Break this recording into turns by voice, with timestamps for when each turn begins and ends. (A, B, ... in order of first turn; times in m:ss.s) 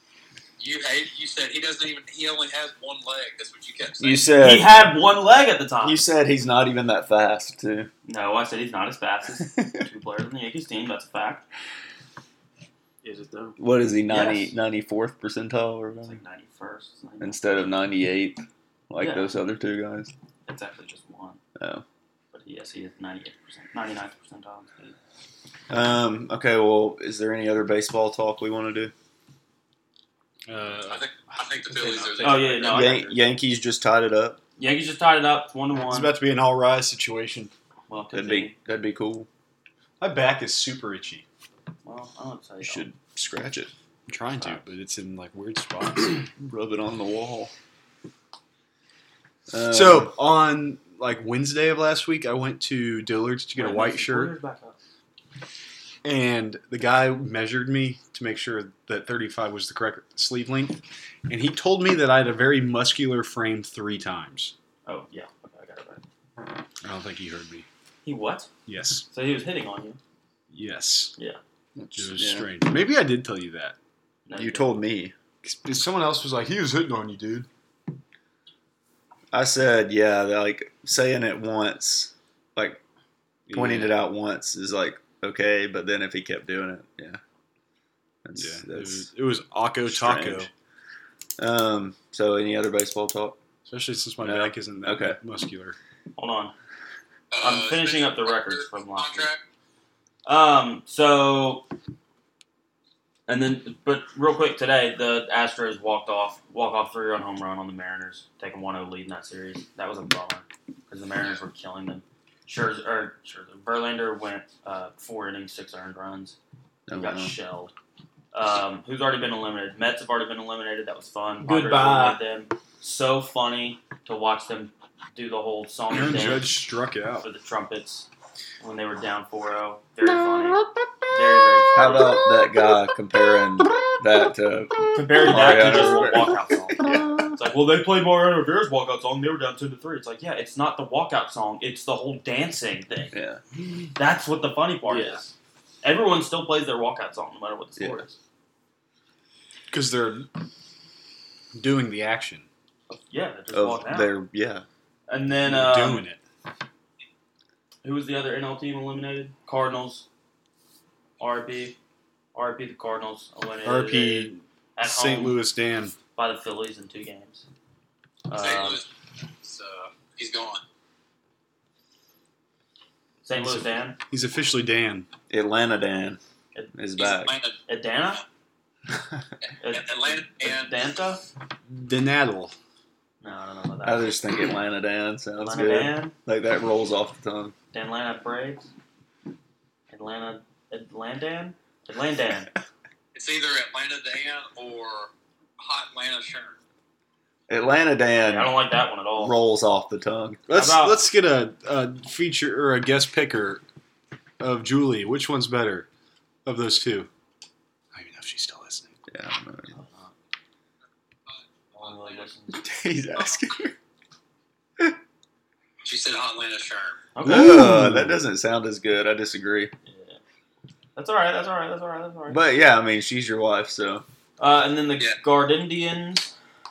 0:00.6-0:04.4 A
0:04.0-0:04.8 B
0:04.4-0:06.0 C
0:05.8-0:07.9 B
0:08.0-0:11.4 C
0:09.4-0:09.8 B
0:13.0-0:13.6 D
0:13.6-0:16.2 B
0:14.1-0:14.6 C
0:16.0-0:17.7 C
0:17.2-0:20.1 B
0:19.0-0:19.3 C
0:20.5-0:21.4 C
0:21.6-0:21.8 B
0:22.3-0:25.0 C
0:25.7-0:28.9 B
0:30.5-0:31.1 E
0:30.9-0:32.9 A
0:31.7-0:32.8 D
0:32.2-0:33.2 C
0:32.7-0:34.4 B
0:34.6-0:36.1 C
0:35.9-0:37.5 E
0:37.9-0:38.5 C
0:38.1-0:39.3 B
0:40.0-0:41.2 E
0:41.8-0:42.9 C
0:42.6-0:43.7 B
0:44.1-0:46.2 E
0:46.4-0:47.5 B
0:49.5-0:50.2 B
0:49.7-0:54.3 E
0:53.6-0:54.8 C
0:56.0-1:04.5 E
1:04.9-1:06.0 C
1:06.8-1:07.7 E
1:08.0-1:08.5 C
1:08.7-1:09.0 E
1:09.1-1:10.0 C
1:10.5-1:11.1 E
1:11.8-1:12.5 B
1:11.9-1:13.8 E
1:14.3-1:14.7 C
1:14.4-1:15.2 B
1:15.4-1:17.5 E
1:19.3-1:22.8 B
1:23.5-1:24.0 E
1:23.5-1:27.2 B
1:28.2-1:29.1 B
1:28.4-1:30.5 E
1:29.9-1:30.5 B
1:31.4-1:33.4 B
1:33.7-1:35.8 E
1:34.2-1:35.2 B
1:36.2-1:36.5 C
1:37.3-1:39.4 A
1:37.4-1:39.3 C
1:40.2-1:41.7 C
1:43.3-1:56.4 C
1:56.9-1:57.3 B
1:57.0-1:57.7 C
1:58.3-2:06.6 C
2:01.4-2:02.2 D
2:05.9-2:07.3 E
2:07.2-2:08.1 C
2:08.6-2:12.2 C
2:11.8-2:17.3 B
2:14.9-2:23.2 C
2:23.1-2:23.4 B
2:24.0-2:28.2 C
2:24.9-2:25.2 D
2:27.8-2:28.0 B
2:29.7-2:30.3 E
2:31.6-2:32.5 E
2:32.9-2:34.2 C
2:33.5-2:34.6 B
2:35.1-2:36.1 C
2:35.4-2:36.2 E
2:37.8-2:40.1 C
2:41.2-2:41.8 C
2:42.3-2:45.4 C
2:43.6-2:46.0 E
2:46.2-2:47.5 C
2:48.3-2:48.8 C
2:48.3-2:48.9 A
2:49.4-2:50.6 A
2:53.2-2:54.0 C
2:53.3-2:55.1 E
2:55.3-2:56.2 B
2:56.7-2:57.4 B
2:57.0-2:57.6 A
2:57.7-2:58.2 C
2:59.6-3:01.2 C
2:59.6-3:00.9 A
3:01.7-3:02.5 E
3:03.2-3:04.2 C
3:03.8-3:07.6 B
3:05.4-3:06.2 C
3:07.7-3:08.7 C
3:09.9-3:12.5 C
3:13.1-3:16.6 A
3:17.5-3:18.6 B
3:18.2-3:19.4 C
3:19.2-3:20.4 B
3:20.5-3:23.6 E
3:20.5-3:21.0 C
3:24.4-3:25.9 E
3:26.4-3:27.1 E
3:27.9-3:29.0 E
3:29.1-3:29.8 B
3:29.7-3:30.1 C
3:31.3-3:32.3 A
3:31.7-3:32.7 C
3:32.6-3:33.8 B
3:35.8-3:37.1 A
3:37.1-3:37.6 C
3:37.2-3:39.7 B
3:37.3-3:38.2 E
3:39.9-3:40.2 C
3:41.0-3:42.4 C
3:42.3-3:44.0 B
3:44.4-3:46.4 C